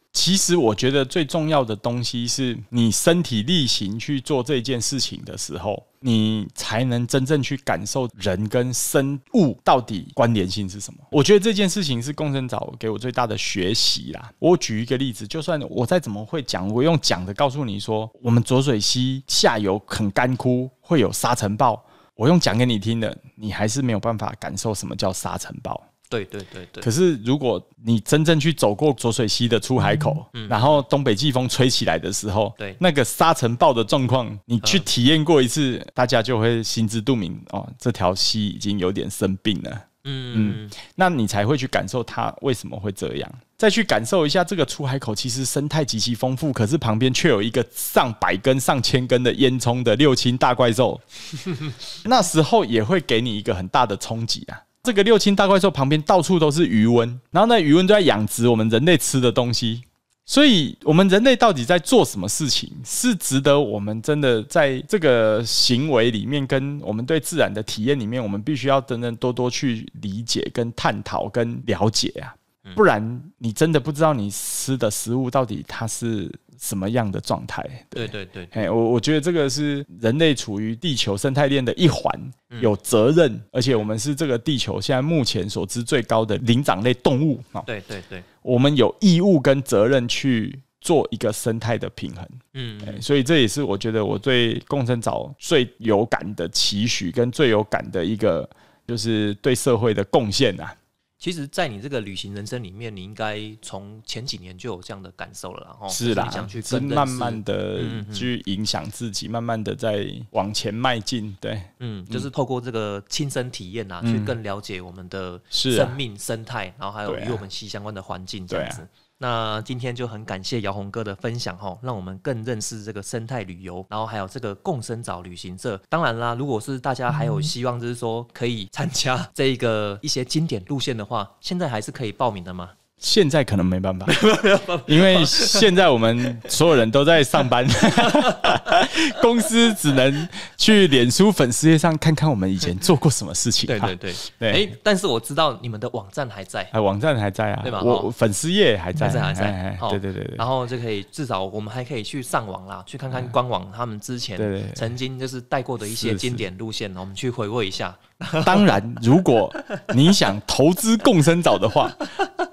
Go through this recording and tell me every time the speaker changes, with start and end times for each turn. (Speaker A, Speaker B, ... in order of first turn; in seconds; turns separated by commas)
Speaker A: 0.1-25.9, Speaker B: 26.1-26.9, Speaker A: 26.8-87.7, Speaker B: 30.3-30.8, Speaker B: 40.0-40.8, Speaker B: 78.0-78.7, Speaker B: 82.5-82.7, Speaker B: 87.7-88.2, Speaker A: 88.4-100.8, Speaker B: 92.5-93.0, Speaker B: 101.2-108.3, Speaker A: 105.9-112.3, Speaker B: 111.8-132.7, Speaker A: 114.0-114.4, Speaker A: 115.5-116.0, Speaker A: 117.0-117.4, Speaker A: 118.5-118.8, Speaker A: 133.0-144.7, Speaker B: 134.1-135.7, Speaker B: 137.9-138.9, Speaker B: 143.6-146.7, Speaker A: 146.7-150.5, Speaker B: 147.6-148.1, Speaker B: 148.9-158.8, Speaker A: 154.4-154.9, Speaker A: 155.9-156.4, Speaker A: 158.4-162.1, Speaker B: 159.5-159.9